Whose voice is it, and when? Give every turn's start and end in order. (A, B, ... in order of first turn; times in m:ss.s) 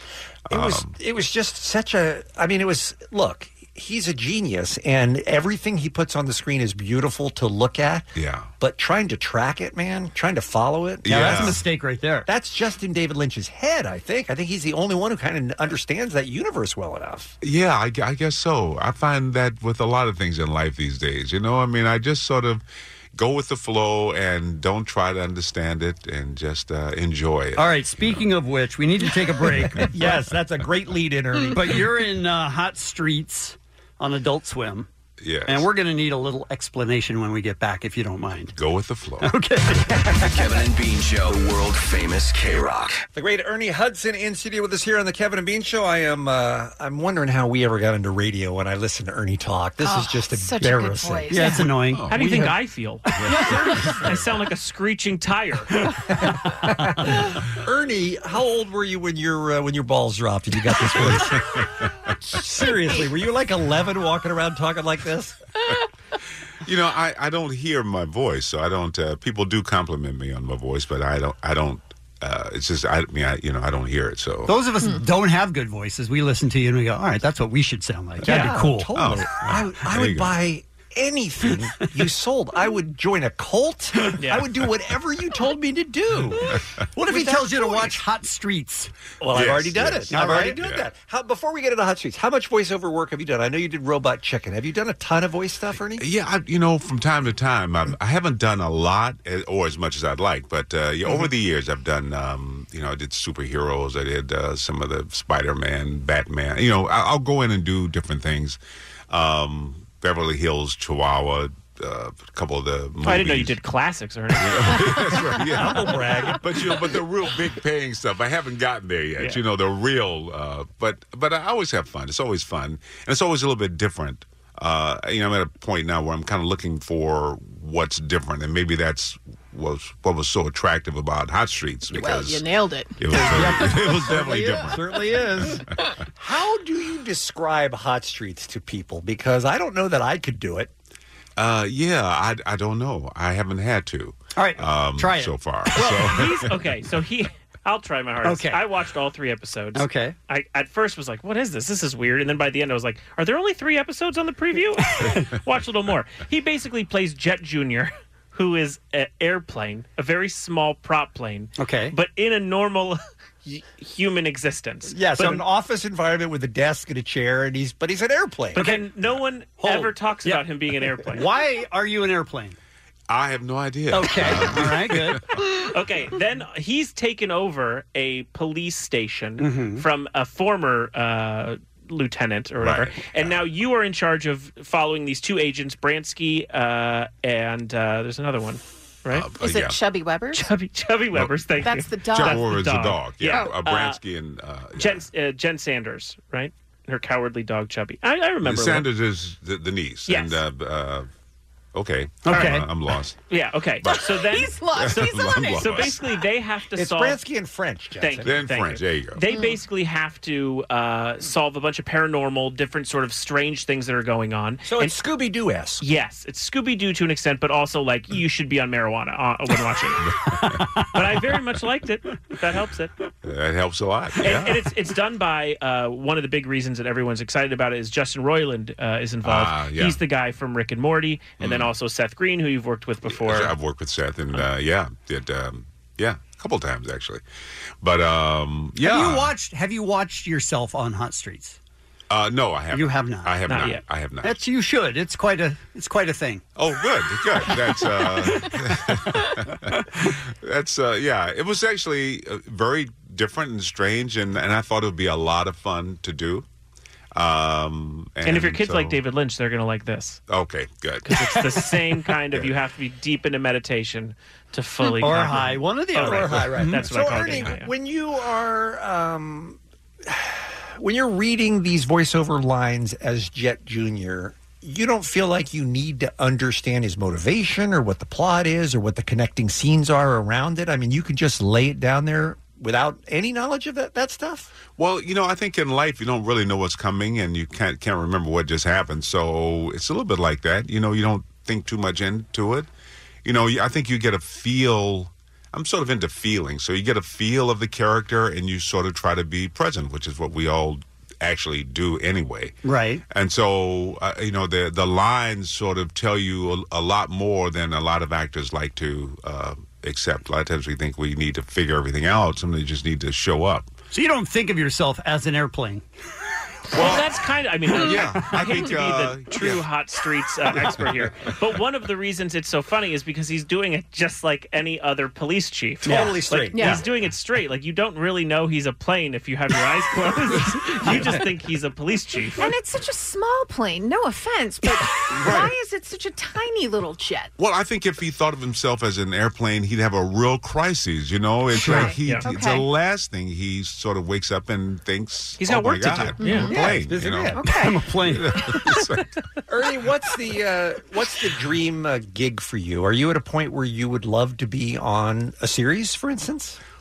0:00.5-0:01.0 A
0:00.5-0:08.1 B
0:08.2-0:08.5 A
0:08.6-0:11.6 B
0:11.0-0:11.7 A
0:11.0-0:12.3 C
0:12.3-0:17.3 B
0:17.4-0:22.6 A
0:23.2-0:28.3 A
0:27.6-0:30.1 C
0:29.8-0:31.8 B
0:31.5-0:34.9 C
0:35.2-0:35.7 A
0:35.5-0:38.5 C
0:38.6-0:39.4 A
0:39.2-0:40.0 C
0:40.2-0:43.0 D
0:43.1-0:51.4 B
0:49.8-0:51.7 E
0:51.3-0:52.5 C
0:51.9-0:52.4 A
0:52.1-0:55.8 F
0:53.2-0:54.1 A
0:56.2-1:01.4 B
1:00.9-1:01.6 A
1:02.3-1:05.4 B
1:06.6-1:14.6 A
1:14.5-1:18.9 C
1:18.2-1:28.0 B
1:18.4-1:20.4 A
1:24.2-1:24.5 F
1:27.0-1:28.9 C
1:29.2-1:36.0 B
1:29.3-1:30.9 A
1:30.1-1:30.6 C
1:36.0-1:48.6 A
1:49.1-1:53.6 A
1:53.0-1:55.0 F
1:54.3-2:12.4 A
1:55.6-1:56.4 B
2:11.9-2:13.0 E
2:13.0-2:15.0 A
2:13.1-2:15.6 B
2:13.2-2:14.4 C
2:16.2-2:20.7 B
2:21.4-2:26.6 A
2:24.4-2:26.1 C
2:25.8-2:45.4 F
2:28.2-2:28.6 C
2:29.8-2:30.2 C
2:41.6-2:42.0 C
2:44.9-2:45.4 C
2:45.2-2:48.6 B
2:48.6-2:48.9 C
2:48.6-2:51.3 F
2:49.6-2:50.5 C
2:51.0-2:52.6 C
2:53.1-2:55.6 A
2:53.9-2:55.2 C
2:55.6-3:09.3 F
2:59.4-2:59.8 C
3:02.6-3:03.4 A
3:09.1-3:09.8 A
3:09.4-3:10.5 E
3:10.3-3:14.0 F
3:11.1-3:11.5 A
3:11.6-3:12.5 E
3:12.1-3:15.1 A
3:13.2-3:13.5 E
3:14.8-3:18.9 F
3:18.4-3:21.1 A
3:20.1-3:20.4 F
3:21.7-3:23.2 A
3:22.2-3:22.7 C
3:22.3-3:22.6 F
3:23.3-3:24.6 F
3:23.8-3:24.1 A
3:23.9-3:25.9 E
3:24.7-3:26.0 A
3:25.5-3:27.2 F
3:26.8-3:28.4 B
3:28.0-3:35.0 F
3:28.2-3:29.2 A
3:29.3-3:29.6 E
3:34.7-3:35.8 B
3:35.8-3:40.0 F
3:40.0-3:40.7 A
3:40.9-3:42.9 F
3:43.2-3:44.7 A
3:44.2-3:53.6 F
3:49.2-3:50.0 A
3:51.4-3:51.7 A
3:53.1-3:57.2 A
3:57.8-3:59.4 A
3:58.8-4:01.6 C
4:02.1-4:04.4 A
4:02.7-4:03.4 C
4:03.5-4:03.8 F
4:04.2-4:06.4 C
4:06.6-4:16.4 A
4:17.1-4:19.0 A
4:18.2-4:20.2 F
4:20.3-4:22.6 A
4:21.0-4:27.7 F
4:25.0-4:26.7 C
4:26.0-4:44.5 B
4:44.7-4:52.7 A
4:53.2-5:02.6 A
5:02.6-5:03.0 C
5:03.1-5:13.7 A
5:13.9-5:15.8 C
5:16.7-5:32.5 F
5:16.7-5:17.2 A
5:17.7-5:19.7 A
5:25.8-5:26.8 B
5:25.9-5:26.2 C
5:26.5-5:26.8 E
5:32.4-5:37.3 E
5:35.2-5:35.5 A
5:37.4-5:47.4 A
5:41.6-5:42.7 E
5:45.4-5:46.6 F
5:46.2-5:46.6 E
5:46.3-5:47.4 B
5:47.3-5:47.8 E
5:47.5-5:48.4 C
5:48.0-5:49.1 A
5:49.5-5:56.6 B